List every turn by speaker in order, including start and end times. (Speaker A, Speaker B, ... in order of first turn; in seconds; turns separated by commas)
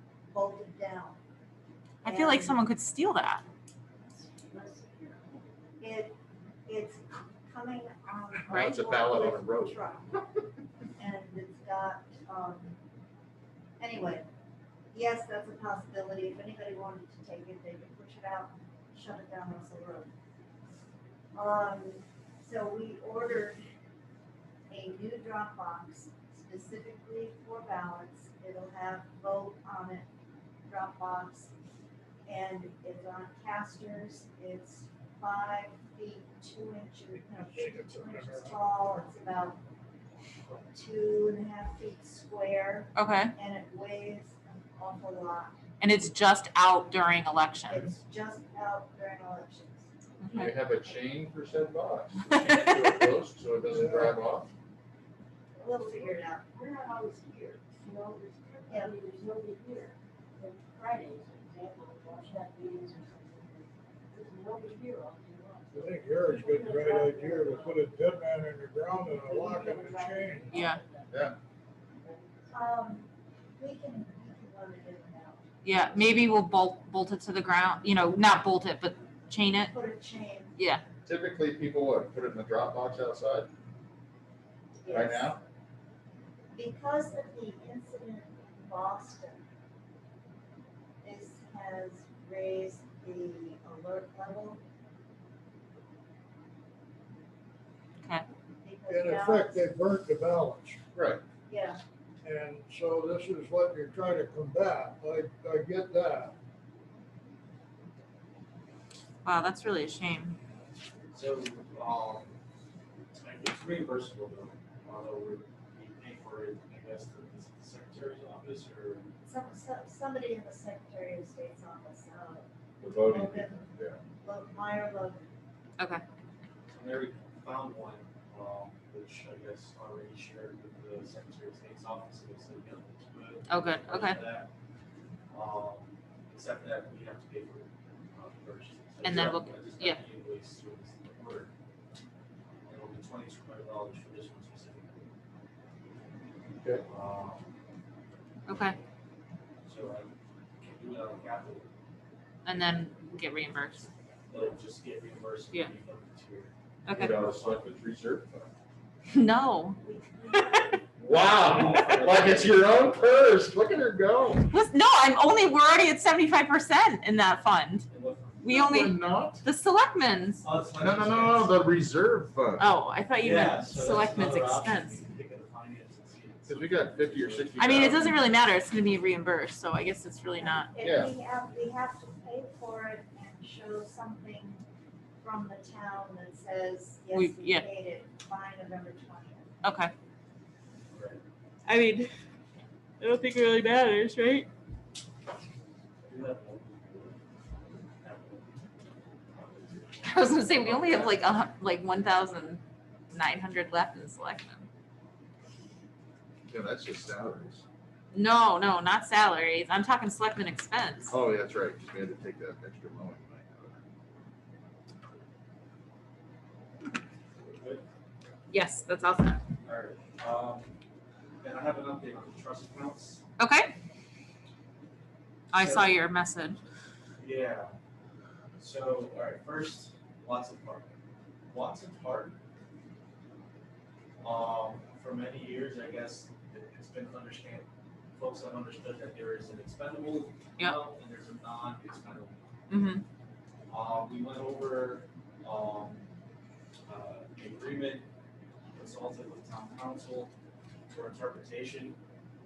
Speaker A: 0.3-1.2, Speaker B: 2.0-3.4, Speaker A: 2.0-2.6, Speaker C: 4.5-5.4, Speaker A: 5.8-10.1, Speaker D: 8.5-9.8, Speaker B: 8.5-8.8, Speaker A: 11.0-12.8, Speaker A: 13.8-14.3, Speaker A: 14.9-20.1, Speaker A: 21.3-23.6, Speaker A: 24.7-30.1, Speaker A: 30.6-31.5, Speaker A: 32.3-39.6, Speaker E: 37.4-38.6, Speaker A: 40.5-45.5, Speaker B: 43.0-43.3, Speaker B: 45.8-47.9, Speaker A: 47.7-49.9, Speaker B: 50.2-50.5, Speaker D: 50.3-54.5, Speaker B: 52.3-52.9, Speaker E: 53.7-54.1, Speaker A: 55.6-56.5, Speaker C: 56.6-67.7, Speaker A: 58.7-59.0, Speaker E: 65.7-70.5, Speaker C: 69.2-71.0, Speaker B: 70.5-70.8, Speaker D: 71.1-71.3, Speaker A: 72.5-75.4, Speaker B: 75.6-79.7, Speaker A: 79.7-80.6, Speaker B: 80.6-80.8, Speaker D: 81.0-83.5, Speaker A: 84.8-85.3, Speaker D: 84.9-85.4, Speaker A: 86.5-89.4, Speaker A: 91.0-94.6, Speaker A: 98.6-99.6, Speaker E: 98.9-100.8, Speaker D: 100.9-101.2, Speaker A: 101.5-101.8, Speaker E: 102.2-106.3, Speaker B: 109.2-110.3, Speaker F: 111.1-112.3, Speaker F: 113.1-119.1, Speaker A: 119.2-125.2, Speaker D: 122.8-124.0, Speaker B: 125.8-126.0, Speaker F: 126.7-134.5, Speaker B: 133.5-134.2, Speaker F: 135.3-141.5, Speaker B: 139.0-140.0, Speaker F: 142.7-145.1, Speaker D: 146.6-146.8, Speaker F: 146.9-147.5, Speaker B: 148.5-148.8, Speaker F: 149.7-151.7, Speaker B: 152.4-153.9, Speaker F: 154.3-156.5, Speaker B: 156.9-157.2, Speaker D: 156.9-158.5, Speaker B: 159.1-159.8, Speaker F: 159.8-162.9, Speaker B: 160.3-160.8, Speaker D: 161.0-164.5, Speaker B: 164.5-167.9, Speaker F: 167.9-168.6, Speaker B: 168.4-170.5, Speaker D: 168.5-169.4, Speaker F: 170.4-171.7, Speaker D: 170.7-172.7, Speaker B: 172.6-175.0, Speaker F: 173.2-178.1, Speaker D: 176.5-178.2, Speaker B: 177.6-180.7, Speaker A: 180.4-184.6, Speaker D: 180.8-181.1, Speaker A: 185.2-189.5, Speaker B: 187.1-187.7, Speaker B: 189.6-189.9, Speaker F: 190.9-191.2, Speaker B: 191.7-192.1, Speaker B: 193.0-194.5, Speaker F: 196.0-197.2, Speaker F: 197.9-198.6, Speaker F: 199.3-201.2, Speaker B: 200.0-202.6, Speaker B: 203.1-204.7, Speaker D: 206.5-207.6, Speaker B: 208.1-211.1, Speaker D: 211.1-213.8, Speaker F: 217.4-217.8, Speaker B: 218.5-219.4, Speaker F: 219.6-220.7, Speaker F: 221.4-223.2, Speaker B: 223.4-223.7, Speaker B: 225.5-226.6, Speaker F: 225.5-225.9, Speaker F: 227.2-227.7, Speaker F: 228.6-230.9, Speaker F: 231.5-232.4, Speaker F: 234.2-242.3, Speaker B: 242.7-243.0, Speaker F: 243.7-246.1, Speaker F: 246.9-248.1, Speaker F: 248.7-250.3, Speaker F: 250.9-252.0